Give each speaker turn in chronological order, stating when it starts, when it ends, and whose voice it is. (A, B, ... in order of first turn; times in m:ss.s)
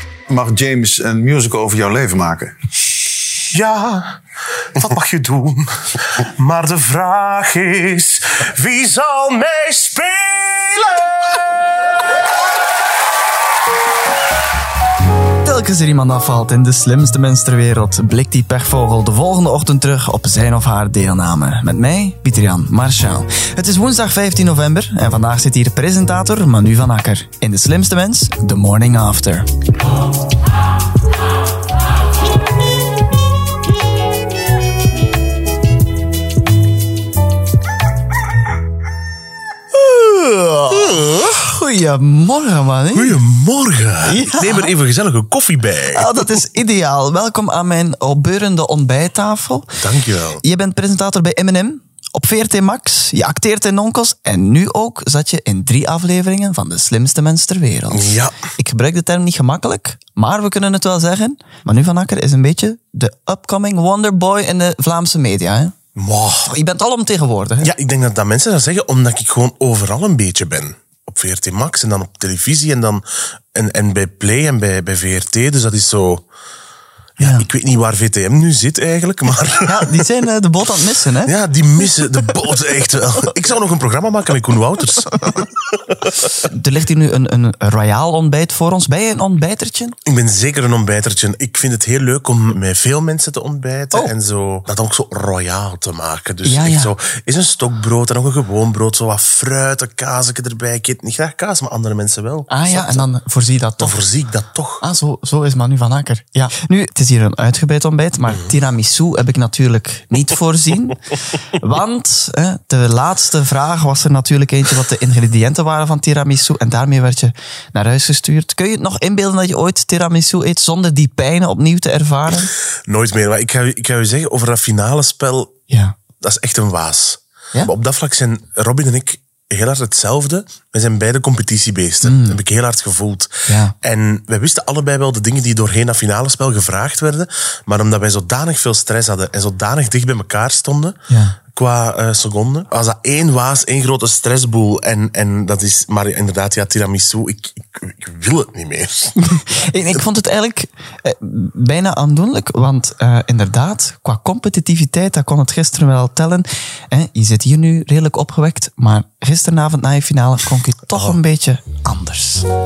0:00.3-0:02.5 A
0:03.5-0:04.2 B
0:04.8-0:11.3 B
0:15.4-0:29.5 C
0:39.7-0:43.2 C
0:40.8-0:41.1 B
0:42.9-0:46.3 B
0:44.1-0:44.7 C
0:45.9-0:49.8 C
0:49.8-0:50.4 B
0:50.4-1:05.7 C
0:57.9-0:58.3 B
1:06.0-1:06.5 B
1:06.4-1:07.7 C
1:07.6-1:16.2 B
1:17.2-1:17.4 C
1:17.2-1:20.0 B
1:19.6-1:21.3 C
1:21.2-1:25.6 B
1:26.4-1:30.0 C
1:30.0-1:43.1 B
1:36.4-1:36.9 C
1:42.5-1:44.0 C
1:43.8-1:44.8 B
1:44.8-2:02.5 C
2:02.9-2:05.6 B
2:05.7-2:06.0 C
2:06.2-2:21.0 B
2:12.0-2:12.4 C
2:13.5-2:13.7 C
2:21.1-2:21.4 C
2:21.5-2:29.6 B
2:29.3-2:42.4 C